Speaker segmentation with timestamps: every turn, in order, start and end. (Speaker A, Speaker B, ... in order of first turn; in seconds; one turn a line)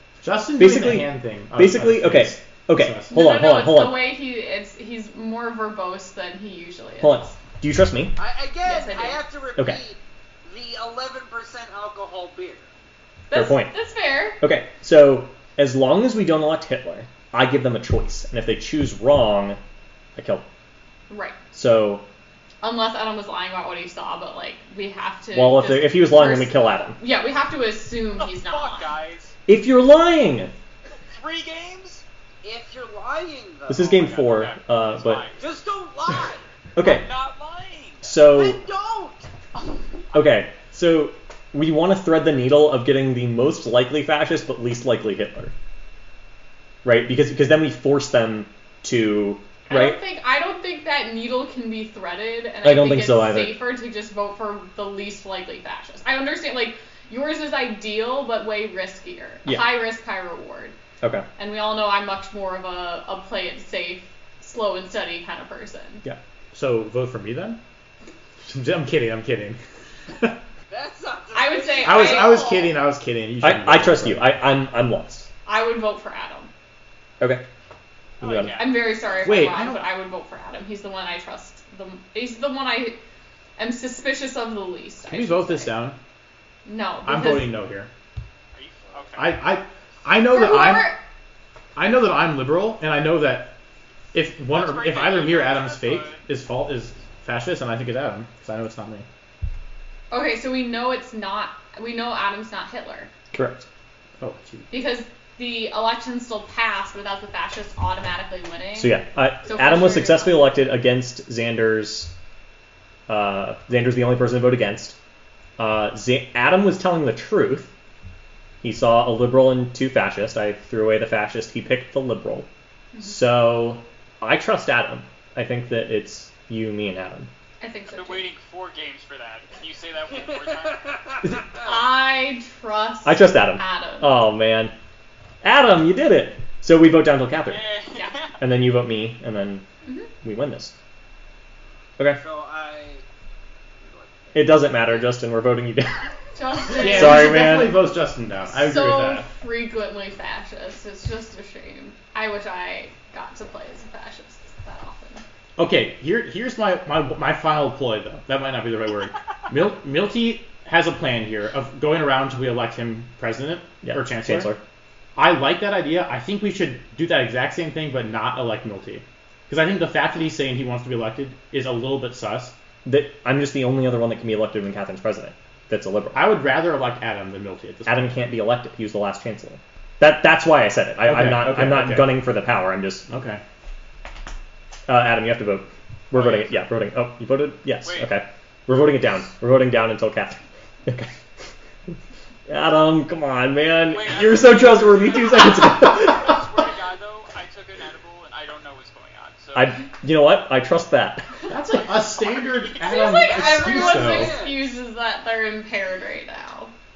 Speaker A: 0.2-3.1
Speaker B: 0.6-4.0
Speaker C: 3.1-7.3
Speaker B: 7.0-8.2
Speaker D: 8.2-12.7
Speaker C: 8.6-9.2
Speaker C: 13.3-14.4
Speaker B: 13.3-13.7
Speaker B: 14.4-19.6
Speaker B: 20.2-20.4
Speaker C: 21.1-21.4
Speaker B: 21.5-22.1
Speaker C: 22.6-28.9
Speaker B: 25.3-27.0
Speaker E: 28.2-29.3
Speaker B: 29.5-30.5
Speaker E: 31.1-32.0
Speaker D: 32.4-33.9
Speaker B: 33.7-35.2
Speaker E: 33.8-35.5
Speaker D: 35.4-36.4
Speaker B: 36.8-37.0
Speaker E: 36.8-38.2
Speaker B: 38.0-38.6
Speaker D: 38.3-39.3
Speaker B: 40.1-45.5
Speaker B: 46.8-50.0
Speaker C: 49.7-60.8
Speaker B: 52.6-53.6
Speaker C: 61.4-66.0
Speaker A: 66.5-67.6
Speaker A: 68.4-70.4
Speaker D: 70.7-72.4
Speaker C: 71.3-72.7
Speaker A: 71.8-74.3
Speaker B: 73.4-75.3
Speaker C: 75.5-76.5
Speaker B: 78.2-78.7
Speaker E: 78.2-79.2
Speaker C: 78.5-83.0
Speaker A: 79.2-79.8
Speaker C: 83.6-85.8
Speaker A: 85.1-86.0
Speaker C: 86.7-87.5
Speaker A: 87.0-87.9
Speaker E: 88.5-89.4
Speaker D: 88.9-89.4
Speaker A: 89.2-91.0
Speaker C: 90.3-91.0
Speaker A: 91.8-93.5
Speaker A: 94.1-99.1
Speaker E: 94.5-96.2
Speaker C: 100.1-103.1
Speaker B: 103.3-103.7
Speaker A: 104.2-104.7
Speaker C: 104.7-110.5
Speaker B: 108.8-112.1
Speaker B: 113.1-115.0
Speaker B: 115.6-117.7
Speaker B: 118.6-122.5
Speaker B: 123.0-127.3
Speaker C: 127.6-128.3
Speaker E: 127.9-131.3
Speaker C: 131.6-134.2
Speaker B: 133.1-134.7
Speaker B: 135.4-137.6
Speaker E: 137.4-138.4
Speaker B: 138.4-139.7
Speaker B: 140.2-140.8
Speaker D: 142.1-143.1
Speaker D: 143.8-145.1
Speaker B: 144.3-146.0
Speaker C: 146.4-147.4
Speaker A: 146.8-149.3
Speaker B: 146.8-147.8
Speaker C: 148.6-155.2
Speaker A: 155.6-164.5
Speaker B: 163.8-164.6
Speaker A: 165.2-172.5
Speaker B: 172.8-176.3
Speaker A: 176.2-178.2
Speaker B: 177.9-183.1
Speaker A: 181.1-182.2
Speaker A: 183.1-183.4
Speaker B: 184.9-191.1
Speaker E: 187.8-188.2
Speaker B: 192.5-196.4
Speaker E: 193.9-199.7
Speaker B: 199.5-201.3
Speaker A: 201.5-204.4
Speaker E: 201.8-203.5
Speaker C: 202.8-206.7
Speaker D: 203.3-204.6